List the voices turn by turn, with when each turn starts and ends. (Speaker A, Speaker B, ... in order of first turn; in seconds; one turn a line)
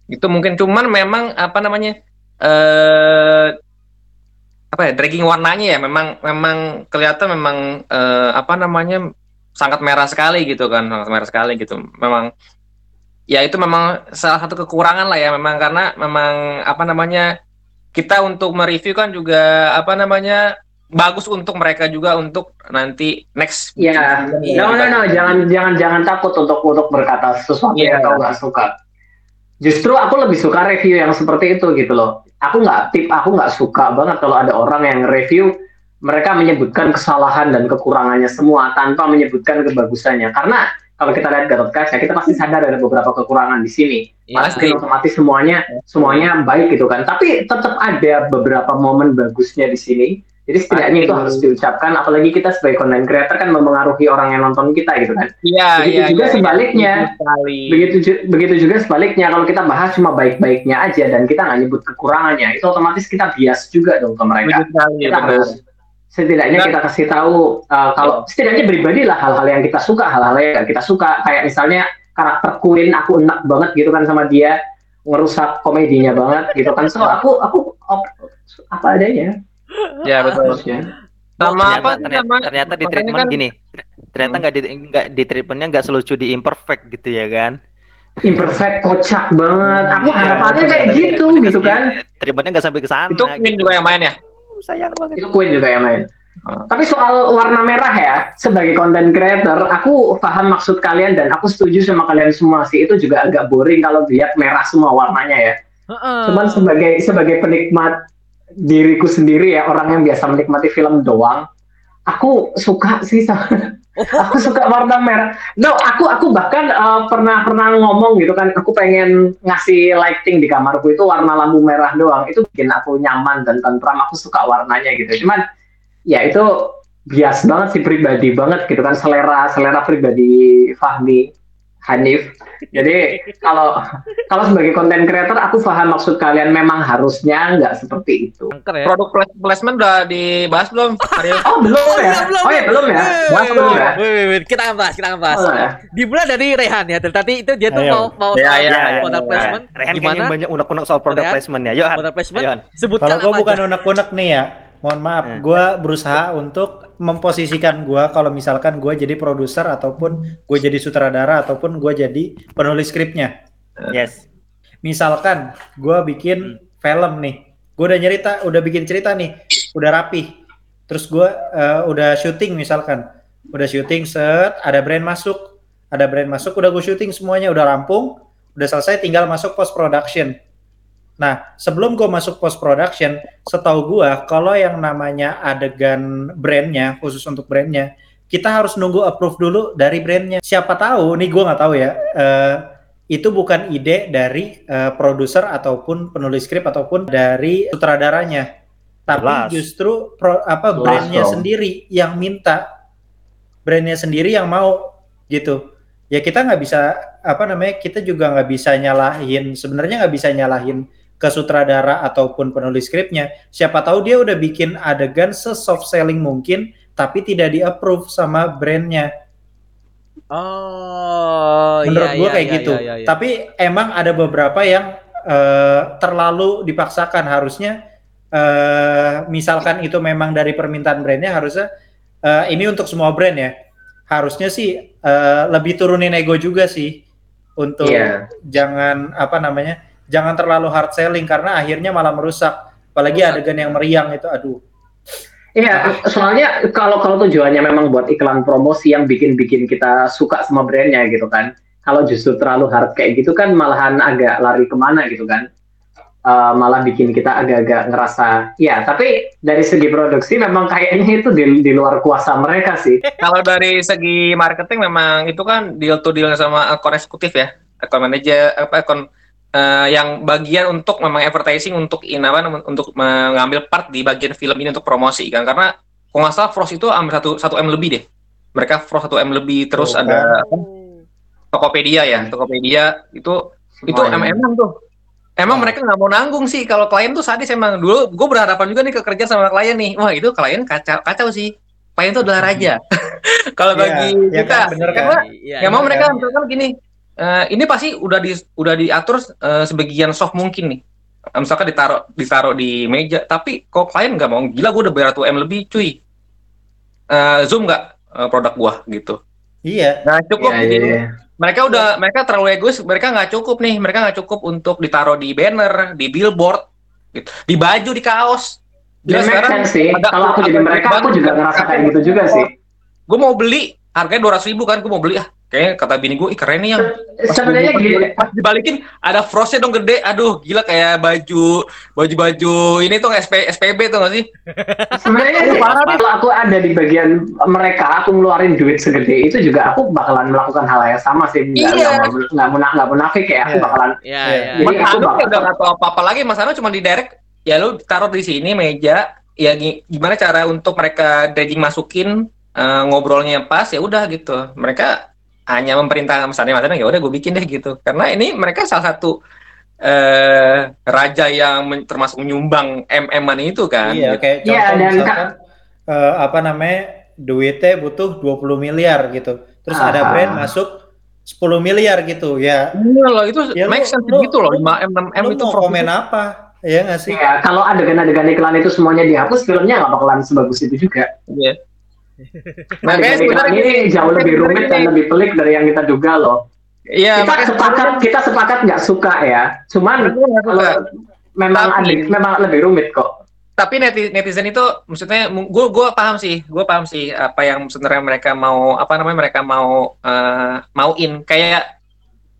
Speaker A: 0.1-3.5
Speaker A: 4.7-9.0
Speaker A: 9.6-12.3
Speaker A: 13.3-17.2
Speaker A: 17.9-20.4
Speaker A: 21.0-25.4
Speaker B: 23.8-28.7
Speaker A: 27.7-28.2
Speaker B: 29.6-35.5
Speaker B: 36.0-57.0
Speaker C: 44.3-44.8
Speaker A: 44.4-44.8
Speaker A: 45.9-46.3
Speaker A: 50.7-51.4
Speaker A: 55.4-57.9
Speaker B: 57.7-65.5
Speaker A: 64.4-65.5
Speaker B: 66.1-74.5
Speaker B: 75.1-78.2
Speaker B: 78.7-79.3
Speaker C: 79.7-80.6
Speaker A: 80.0-80.6
Speaker B: 80.4-80.9
Speaker A: 81.4-83.4
Speaker D: 81.4-87.6
Speaker C: 81.6-82.0
Speaker B: 88.2-91.9
Speaker D: 90.0-93.9
Speaker A: 90.2-90.8
Speaker A: 93.1-94.1
Speaker D: 94.5-95.3
Speaker B: 95.2-96.0
Speaker B: 96.7-105.5
Speaker C: 105.9-106.7
Speaker B: 106.2-107.9
Speaker B: 108.7-111.4
Speaker B: 112.1-125.4
Speaker C: 114.0-114.5
Speaker B: 126.1-126.5
Speaker B: 127.1-131.3
Speaker B: 131.9-133.8
Speaker C: 132.7-133.4
Speaker B: 134.3-138.5
Speaker C: 138.5-138.9
Speaker A: 138.8-141.5
Speaker C: 141.0-150.3
Speaker B: 141.4-144.0
Speaker A: 143.3-143.9
Speaker B: 145.3-145.8
Speaker E: 147.7-148.1
Speaker A: 148.3-149.5
Speaker D: 148.7-152.6
Speaker C: 151.1-151.4
Speaker C: 151.9-153.8
Speaker E: 153.0-163.3
Speaker D: 163.9-164.2
Speaker E: 164.8-170.3
Speaker E: 170.9-180.3
Speaker E: 181.2-198.5
Speaker E: 199.1-202.6
Speaker D: 199.1-199.6
Speaker B: 200.8-201.4
Speaker E: 203.7-204.8
Speaker E: 205.3-205.6
Speaker E: 206.1-219.1
Speaker C: 220.3-223.1
Speaker E: 221.8-227.8
Speaker E: 228.3-231.7
Speaker E: 232.2-233.5
Speaker E: 234.1-237.0
Speaker E: 237.6-244.6
Speaker B: 237.8-238.1
Speaker B: 245.6-255.4
Speaker E: 245.7-246.0
Speaker B: 256.3-263.0
Speaker A: 263.2-269.0
Speaker A: 269.5-278.0
Speaker A: 278.6-280.6
Speaker E: 279.8-280.4
Speaker C: 280.4-281.1
Speaker A: 281.5-284.7
Speaker B: 283.8-284.4
Speaker A: 285.4-300.8
Speaker E: 285.5-285.8
Speaker E: 293.7-296.1
Speaker C: 294.5-296.3
Speaker A: 301.4-306.0
Speaker A: 307.1-309.2
Speaker E: 309.7-310.0
Speaker A: 310.0-316.6
Speaker B: 310.4-311.0
Speaker A: 317.1-322.5
Speaker B: 319.1-322.5
Speaker A: 323.1-334.3
Speaker B: 326.8-328.2
Speaker C: 334.5-335.3
Speaker B: 334.9-343.9
Speaker A: 335.4-336.0
Speaker D: 335.4-336.0
Speaker A: 341.6-342.1
Speaker E: 343.4-344.6
Speaker C: 344.0-344.8
Speaker B: 344.6-345.5
Speaker A: 344.6-354.9
Speaker A: 355.5-359.1
Speaker A: 359.8-364.2
Speaker E: 363.8-365.3
Speaker B: 364.4-365.2
Speaker E: 365.9-370.7
Speaker B: 369.7-370.5
Speaker E: 371.3-372.7
Speaker A: 372.8-375.9
Speaker E: 373.6-377.2
Speaker B: 377.1-381.1
Speaker A: 381.3-381.6
Speaker C: 382.3-383.2
Speaker A: 382.8-384.9
Speaker B: 382.8-386.4
Speaker A: 386.9-388.0
Speaker B: 387.1-390.8
Speaker A: 390.0-390.8
Speaker B: 391.4-393.1
Speaker A: 391.5-392.1
Speaker A: 393.6-401.6